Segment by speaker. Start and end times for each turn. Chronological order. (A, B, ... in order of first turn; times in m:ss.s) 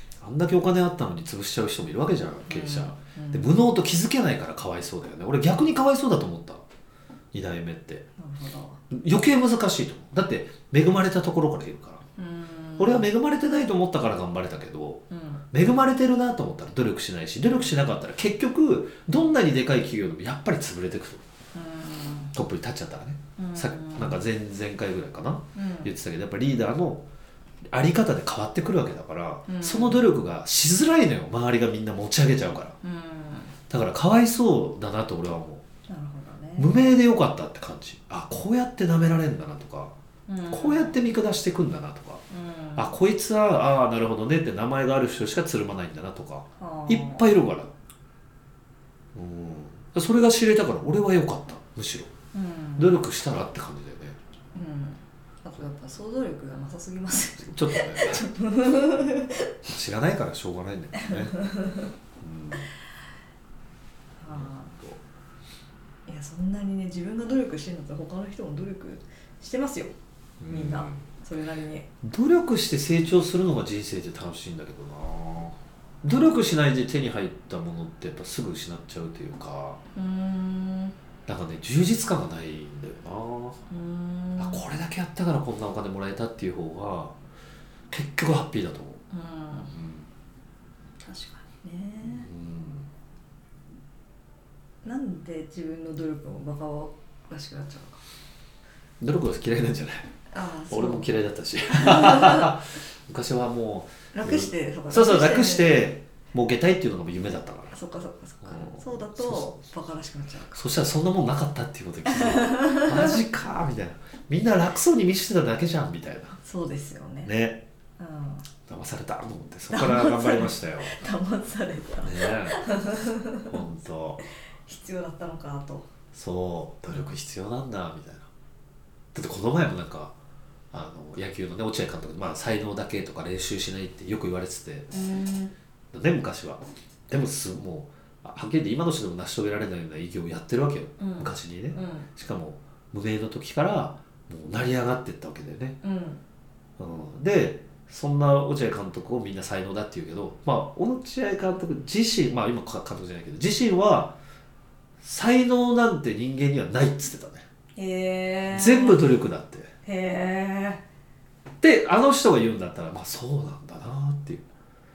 0:00.2-0:06.6 A
0:02.4-0:03.5 B
0:07.3-0:08.0 A
0:08.2-0:08.8 B
0:08.9-0:12.0 A
0:12.2-0:13.1 B
0:12.8-0:21.2 A
0:15.1-0:15.4 B
0:21.5-0:22.3 B
0:22.3-0:27.0 A
0:23.4-0:24.2 B
0:25.5-0:25.9 B
0:27.7-0:32.8 A
0:29.5-0:30.1 B
0:32.8-0:33.5 B
0:33.7-0:35.6 A
0:35.9-0:36.8 B
0:36.6-0:39.9 A
0:40.3-0:41.0 B
0:40.5-0:42.2 A
0:42.3-0:43.0 B
0:42.8-0:47.7 A
0:46.6-0:47.3 B
0:49.1-0:52.1 A
0:52.3-0:53.0 B
0:52.8-0:54.2 A
0:54.5-0:59.5 B
0:57.4-0:58.2 A
0:59.6-1:01.4 A
1:00.9-1:01.9 B
1:02.2-1:02.6 A
1:04.2-1:04.7 B
1:04.3-1:05.0 A
1:06.1-1:09.9 B
1:10.4-1:11.0 A
1:10.5-1:11.8 B
1:12.0-1:19.8 A
1:19.9-1:20.9 B
1:21.3-1:23.6 A
1:23.7-1:24.7 B
1:24.4-1:27.1 A
1:27.9-1:29.0 A
1:29.1-1:29.7 B
1:29.7-1:30.1 A
1:31.0-1:32.3 B
1:32.0-1:32.9 A
1:34.8-1:38.0 B
1:39.0-1:40.1 A
1:40.3-1:41.1 B
1:40.7-1:47.8 A
1:41.7-1:42.5 B
1:44.1-1:45.9 B
1:47.7-1:50.6 B
1:48.4-1:49.6 A
1:50.5-1:56.4 A
1:52.1-1:53.2 B
1:56.4-1:57.3 B
1:57.2-1:57.6 A
1:58.0-1:58.4 B
1:58.6-2:00.9 A
1:59.7-2:03.6 B
2:02.0-2:02.6 A
2:03.5-2:04.2 A
2:04.6-2:05.9 B
2:06.1-2:08.3 A
2:09.1-2:10.1 A
2:10.7-2:14.9 A
2:14.9-2:15.5 B
2:15.9-2:25.8 A
2:21.0-2:22.1 B
2:25.8-2:26.2 B
2:26.8-2:34.2 A
2:35.0-2:37.4 A
2:37.8-2:39.1 B
2:38.5-2:39.7 A
2:39.8-2:40.8 B
2:41.6-2:44.4 A